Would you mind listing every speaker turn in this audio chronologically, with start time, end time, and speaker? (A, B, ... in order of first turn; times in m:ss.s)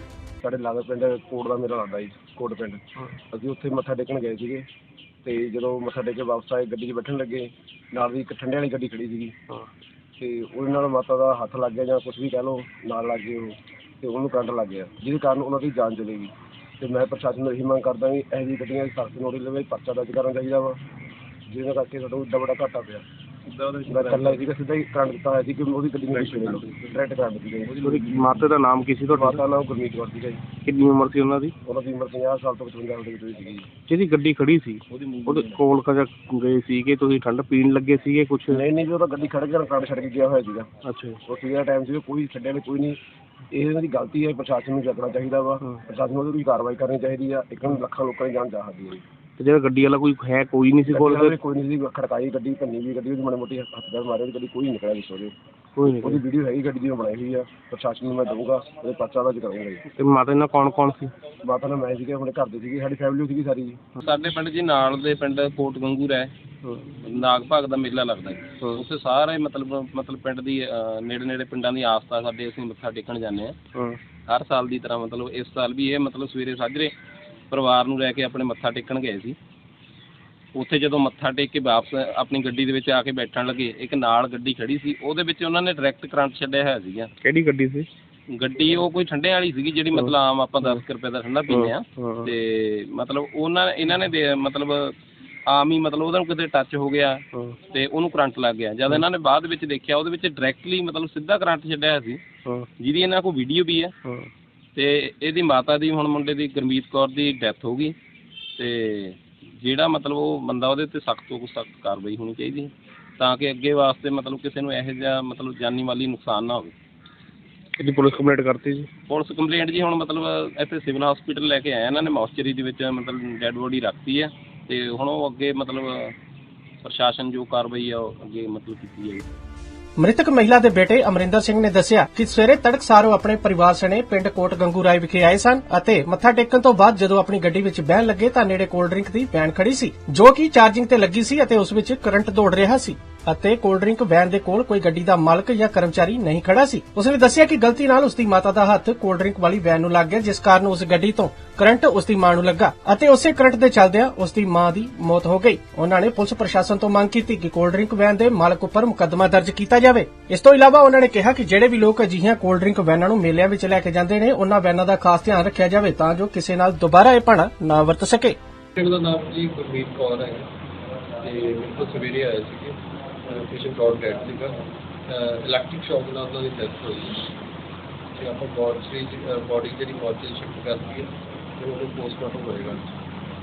0:00.4-0:04.7 A
0:05.2-0:09.4 A
0:10.2-0:20.8 A
0:21.5-0:23.0 A
0:23.6-0:24.0 B
0:23.9-0:27.8 A
0:26.1-0:27.0 C
0:27.8-0:29.4 C
0:29.1-0:30.4 A
0:30.6-0:31.5 C
0:31.6-0:33.7 A
0:33.9-0:38.6 C
0:34.9-0:35.5 B
0:38.5-0:40.7 A
0:40.8-0:41.2 C
0:41.2-0:43.0 A
0:43.5-0:49.0 A
0:49.4-0:51.3 C
0:50.9-0:55.3 A
0:55.8-0:56.2 C
0:55.8-0:59.8 A
0:59.9-1:01.1 C
1:01.4-1:03.8 A
1:04.0-1:06.3 B
1:06.6-1:06.9 C
1:07.0-1:13.6 B
1:13.7-1:14.0 C
1:14.3-1:16.9 B
1:17.5-1:19.4 B
1:20.5-1:27.1 B
1:27.2-1:27.9 C
1:28.3-1:34.9 B
1:29.9-1:30.8 C
1:31.5-1:32.3 C
1:35.5-1:42.2 B
1:42.8-1:43.9 B
1:44.7-1:47.9 B
1:48.6-1:56.7 B
1:57.8-1:58.9 C
1:59.1-2:06.2 B
2:06.8-2:09.2 B
2:10.0-2:48.4 D
2:48.8-2:50.5 E
2:51.2-2:57.3 E
2:58.2-3:02.9 E